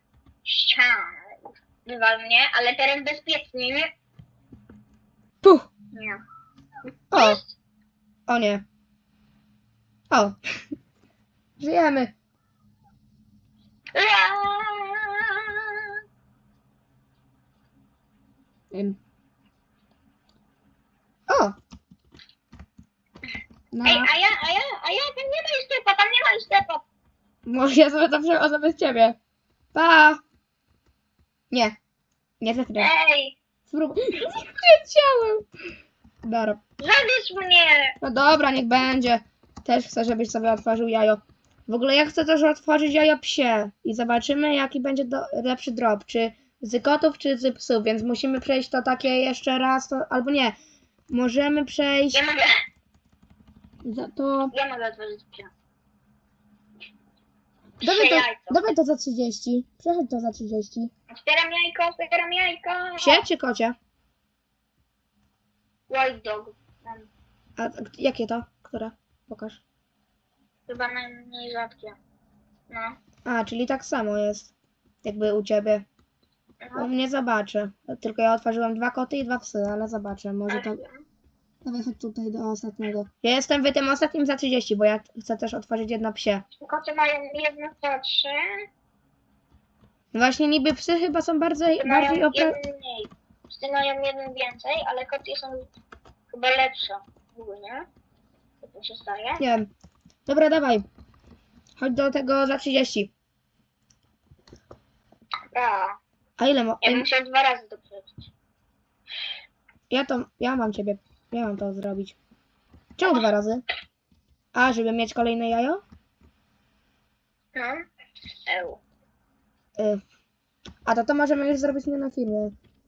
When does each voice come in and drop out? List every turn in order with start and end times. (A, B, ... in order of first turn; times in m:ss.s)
0:00.4-0:03.9 A
0:05.4-0:05.7 B
0:05.9-0:06.2 A
0:07.1-0:07.4 B
0:07.1-0:07.5 A
0:08.3-0:08.6 B
0:10.1-0:10.4 B
0:11.6-0:12.1 B
0:14.0-0:16.0 A
0:18.7-0:19.0 B
0:21.3-0:21.6 B
0:23.7-0:24.1 B
0:23.8-0:26.8 A
0:27.5-0:29.2 B
0:29.7-0:30.2 B
0:31.5-0:31.8 B
0:32.4-0:32.9 B
0:32.8-0:33.4 A
0:33.7-0:35.5 B
0:36.2-0:36.6 B
0:36.8-0:38.0 A
0:38.0-0:50.6 B
0:51.1-0:52.2 B
0:52.1-0:52.5 A
0:53.8-0:54.5 B
0:54.5-0:55.5 A
0:57.8-0:58.6 A
0:57.8-1:00.9 B
1:01.1-1:03.3 A
1:03.0-1:03.8 B
1:05.9-1:07.1 A
1:07.6-1:09.6 B
1:10.7-1:12.0 A
1:12.7-1:13.0 A
1:13.2-1:14.5 B
1:15.0-1:15.9 B
1:16.6-1:16.9 A
1:16.8-1:20.8 B
1:20.5-1:21.0 A
1:21.6-1:26.4 B
1:26.6-1:28.6 A
1:30.1-1:32.6 B
1:31.7-1:35.7 A
1:36.3-1:37.9 A
1:38.6-1:39.4 A
1:39.4-1:39.7 B
1:40.3-1:40.9 B
1:41.8-1:43.1 B
1:45.5-1:46.0 A
1:46.4-1:47.1 B
1:46.8-1:48.2 A
1:49.9-1:52.2 B
1:53.0-1:53.6 B
1:54.5-1:55.8 B
1:57.6-1:57.8 A
1:58.5-1:58.8 A
2:00.9-2:02.5 B